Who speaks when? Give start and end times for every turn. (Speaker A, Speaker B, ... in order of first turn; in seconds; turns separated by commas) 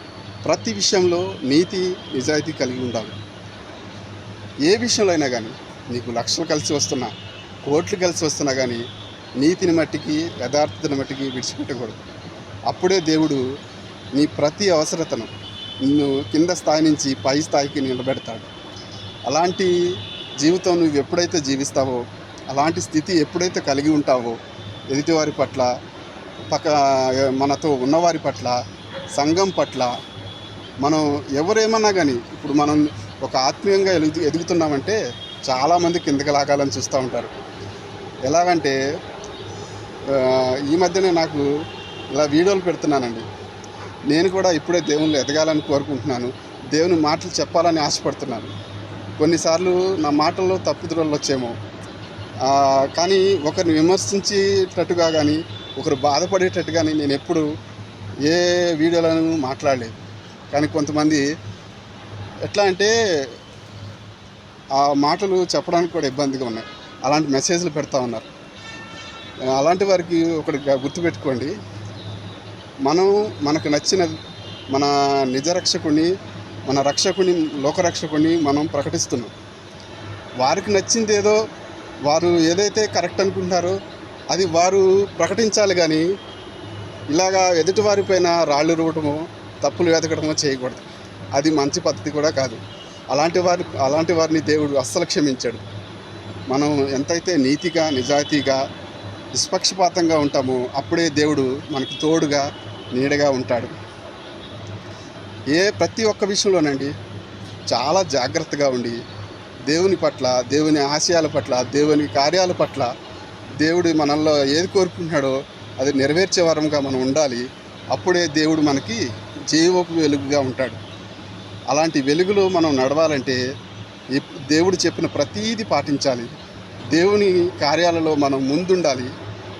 Speaker A: 0.5-3.2, Speaker A: 4.7-7.1, Speaker A: 7.7-8.8, Speaker A: 9.4-12.0, Speaker A: 12.7-13.4, Speaker A: 14.2-15.3, Speaker A: 15.8-18.5, Speaker A: 19.3-19.7, Speaker A: 20.4-24.4, Speaker A: 24.9-25.7, Speaker A: 26.5-28.6, Speaker A: 29.1-29.9, Speaker A: 30.8-37.3, Speaker A: 38.3-38.8, Speaker A: 40.1-41.5, Speaker A: 42.1-43.2, Speaker A: 44.1-48.5, Speaker A: 49.2-51.5, Speaker A: 52.4-57.5, Speaker A: 58.3-60.0, Speaker A: 60.5-61.2, Speaker A: 62.5-62.9, Speaker A: 64.8-68.3, Speaker A: 69.5-71.5, Speaker A: 72.8-74.2, Speaker A: 74.7-76.1, Speaker A: 76.7-79.3, Speaker A: 80.4-81.4, Speaker A: 82.1-83.8, Speaker A: 84.3-86.0, Speaker A: 87.1-92.6, Speaker A: 93.1-95.7, Speaker A: 96.5-98.6, Speaker A: 99.3-103.8, Speaker A: 105.5-106.9, Speaker A: 107.7-109.0, Speaker A: 109.7-112.9, Speaker A: 113.6-120.8, Speaker A: 121.7-123.4, Speaker A: 124.1-126.3, Speaker A: 126.9-129.1